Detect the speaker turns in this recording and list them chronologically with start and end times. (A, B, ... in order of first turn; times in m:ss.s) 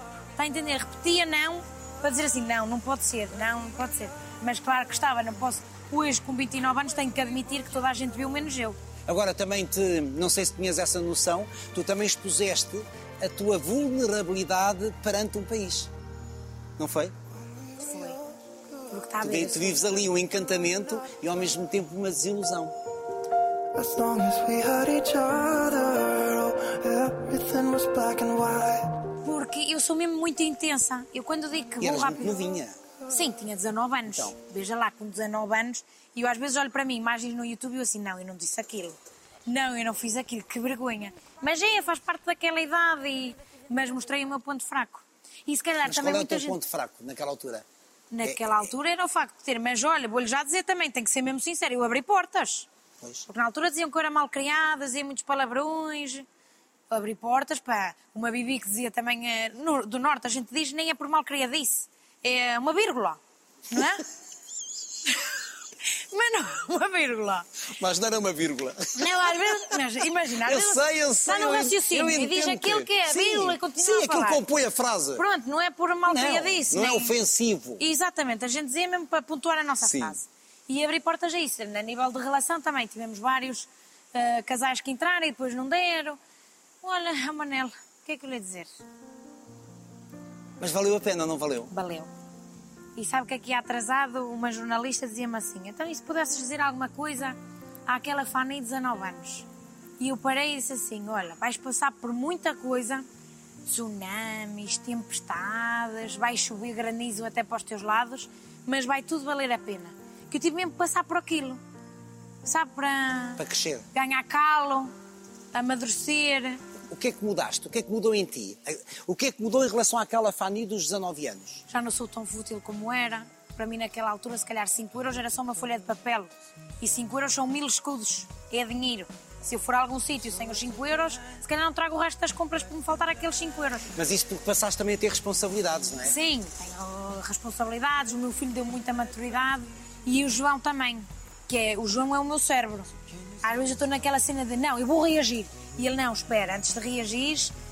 0:00.4-0:08.8 A
0:09.1-0:15.9 B
0:16.8-0:17.2 B
0:17.8-0:18.2 A
0:18.9-0:19.8 A
0:19.2-0:22.7 B
0:23.7-0:29.0 C
0:29.2-0:32.4 A
0:31.8-0:32.8 B
0:33.1-0:46.6 A
0:34.1-0:34.3 B
0:45.8-0:47.6 B
0:48.1-0:52.7 A
0:48.2-0:48.6 B
0:53.0-0:53.3 B
0:53.3-0:56.2 A
0:56.9-1:03.2 A
1:03.7-1:04.0 A
1:05.8-1:07.5 A
1:07.7-1:09.6 B
1:08.9-1:14.4 A
1:10.4-1:15.2 B
1:15.2-1:17.1 A
1:16.0-1:17.8 B
1:17.8-1:26.2 A
1:19.8-1:20.2 B
1:26.8-1:28.7 A
1:30.6-1:31.7 B
1:31.7-1:32.1 A
1:33.0-1:37.4 A
1:37.9-1:39.5 A
1:40.0-1:43.0 A
1:43.6-1:51.6 A
1:52.4-1:53.4 A
1:53.4-1:53.9 B
1:53.9-1:54.9 A
1:55.5-1:56.6 A
1:56.9-2:01.6 B
2:01.7-2:06.3 A
2:06.8-2:13.9 A
2:13.9-2:16.2 B
2:16.0-2:22.9 A
2:23.4-2:27.5 A